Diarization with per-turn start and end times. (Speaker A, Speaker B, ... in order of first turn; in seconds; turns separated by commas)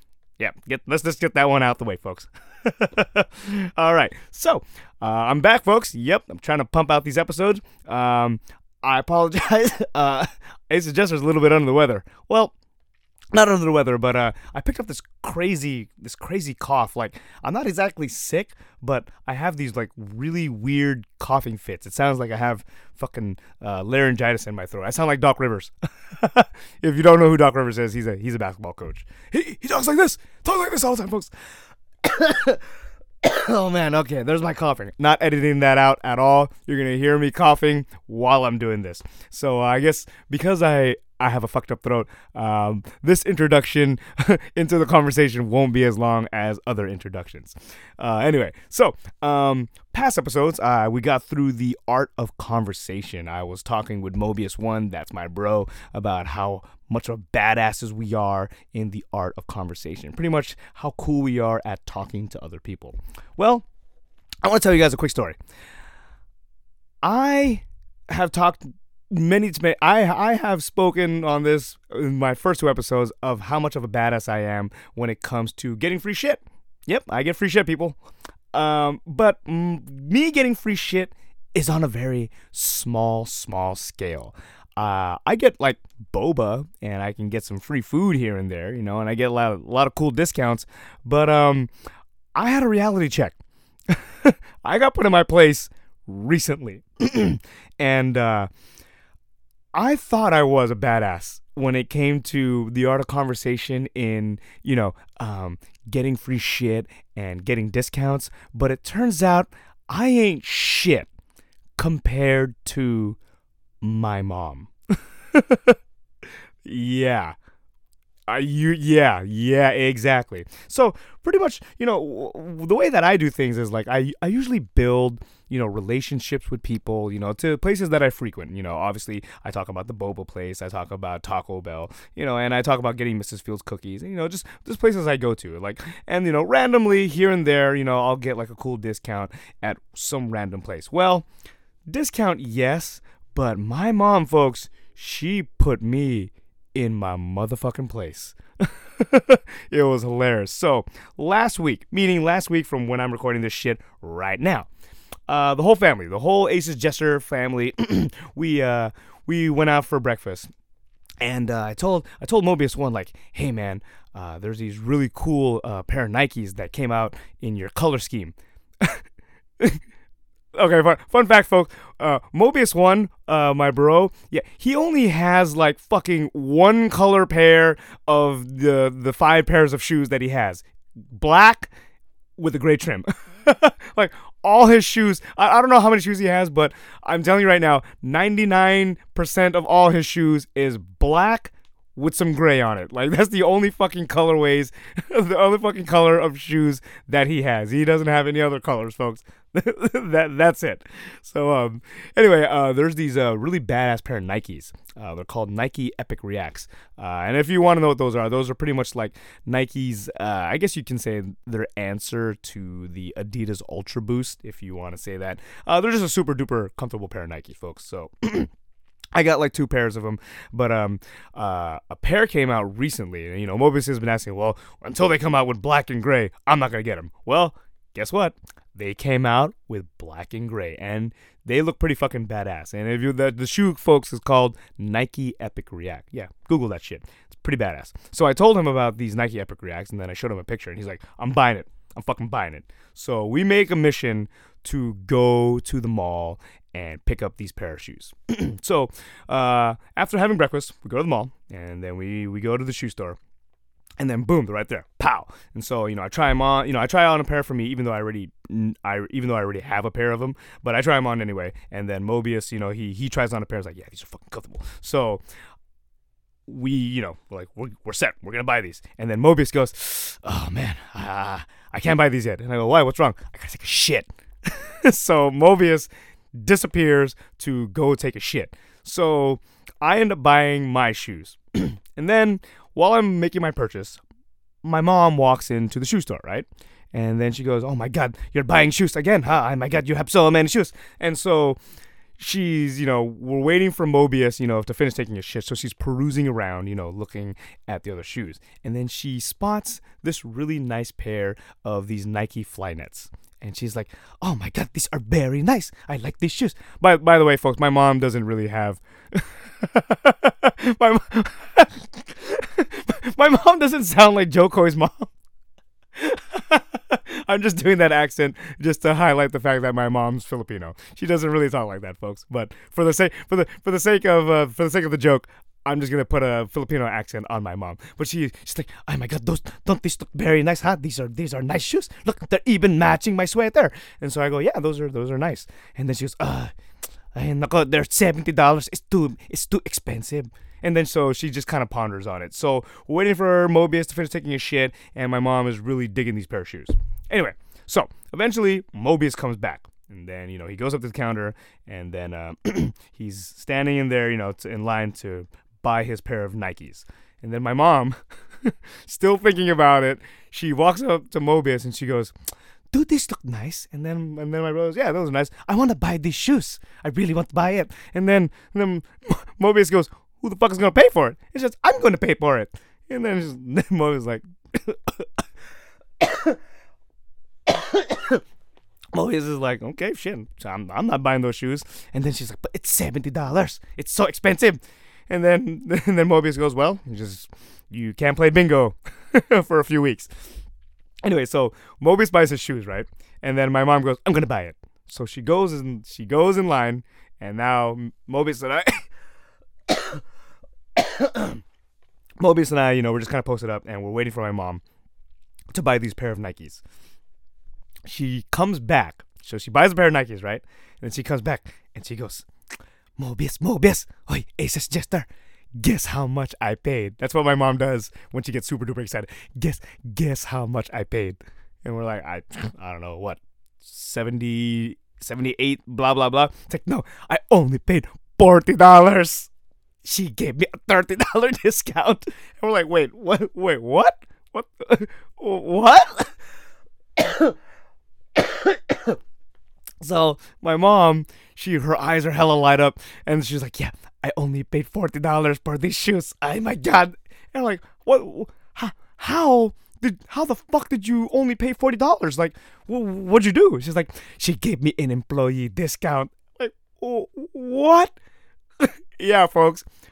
Speaker A: 0.4-12.5, Speaker A: 13.3-31.3, Speaker A: 32.0-32.7, Speaker A: 33.2-63.6, Speaker A: 64.4-65.4, Speaker A: 67.0-78.0, Speaker A: 78.5-91.7, Speaker A: 92.3-93.4, Speaker A: 93.9-98.5, Speaker A: 99.7-111.1, Speaker A: 111.8-113.2, Speaker A: 113.8-115.8, Speaker A: 116.6-117.4, Speaker A: 118.3-141.3, Speaker A: 141.9-154.7, Speaker A: 155.3-160.5, Speaker A: 161.2-169.0, Speaker A: 170.5-181.7, Speaker A: 182.4-218.5, Speaker A: 219.1-253.2, Speaker A: 254.0-265.2, Speaker A: 266.5-284.0, Speaker A: 284.6-291.6, Speaker A: 292.2-315.1, Speaker A: 315.9-336.5, Speaker A: 337.1-362.1, Speaker A: 362.7-375.2, Speaker A: 376.0-376.4, Speaker A: 377.5-378.2, Speaker A: 378.9-390.1, Speaker A: 391.0-398.9, Speaker A: 399.7-400.0, Speaker A: 400.8-401.4, Speaker A: 402.2-404.6, Speaker A: 405.5-406.6, Speaker A: 407.9-412.3, Speaker A: 413.0-429.3, Speaker A: 429.8-436.1, Speaker A: 437.0-437.4, Speaker A: 438.1-439.0, Speaker A: 439.8-457.9, Speaker A: 458.6-459.7